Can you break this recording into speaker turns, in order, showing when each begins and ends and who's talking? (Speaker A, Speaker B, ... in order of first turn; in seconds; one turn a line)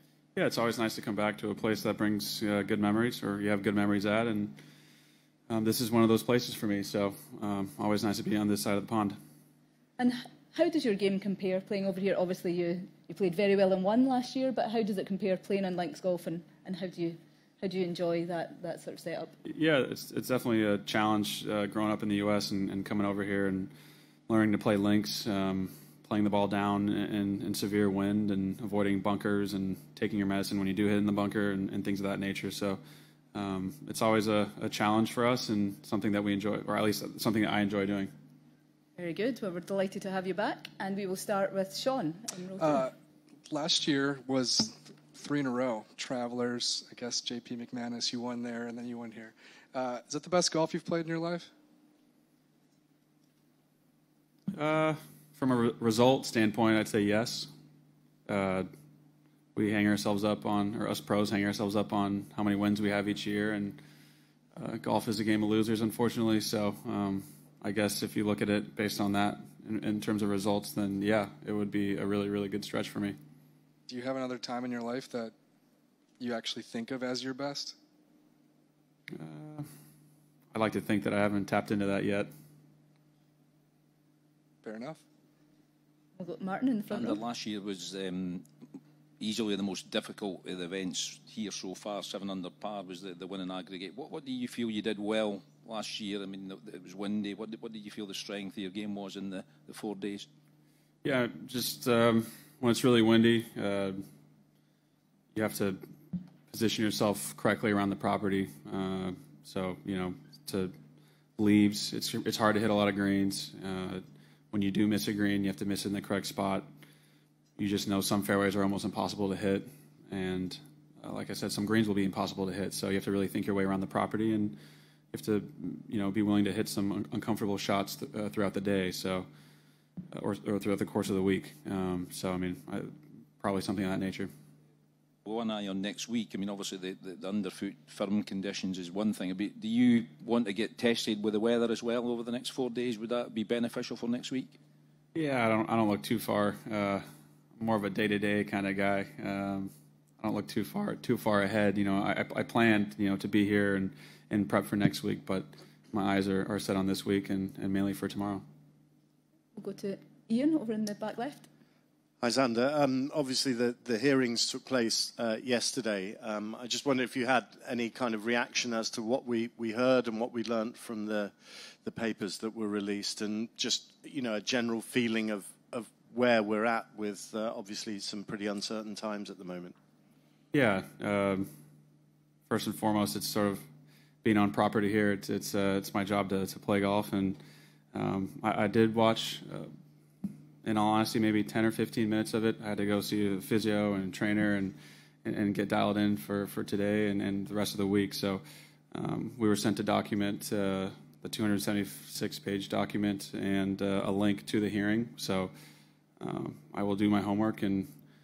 Speaker A: 0.3-4.5
Speaker A: 5.5-9.1
Speaker B: 10.0-19.3
Speaker A: 19.4-23.7
Speaker A: 24.3-32.8
Speaker A: 33.3-38.1
Speaker B: 39.0-42.9
Speaker C: 42.6-42.9
Speaker C: 43.5-51.5
Speaker A: 54.5-57.5
Speaker A: 58.3-58.6
Speaker A: 59.5-63.8
Speaker A: 64.5-73.2
Speaker C: 73.9-75.3
Speaker C: 76.2-77.8
Speaker A: 79.1-79.7
Speaker A: 80.5-82.3
Speaker C: 84.6-85.0
Speaker B: 86.2-87.2
Speaker D: 86.9-88.5
Speaker D: 89.2-100.3
Speaker A: 101.0-104.0
Speaker A: 105.3-105.8
Speaker A: 106.5-110.7
Speaker A: 111.4-116.7
Speaker A: 117.6-124.5
Speaker A: 125.1-129.2
Speaker A: 130.1-134.3
Speaker D: 135.2-144.6
Speaker A: 145.1-147.0
Speaker A: 147.6-158.4
Speaker B: 159.5-161.5
Speaker E: 162.2-179.7
Speaker A: 180.5-181.5
Speaker A: 182.5-183.6
Speaker A: 184.2-187.4
Speaker A: 187.9-189.7
Speaker A: 190.6-205.5
Speaker A: 206.2-207.9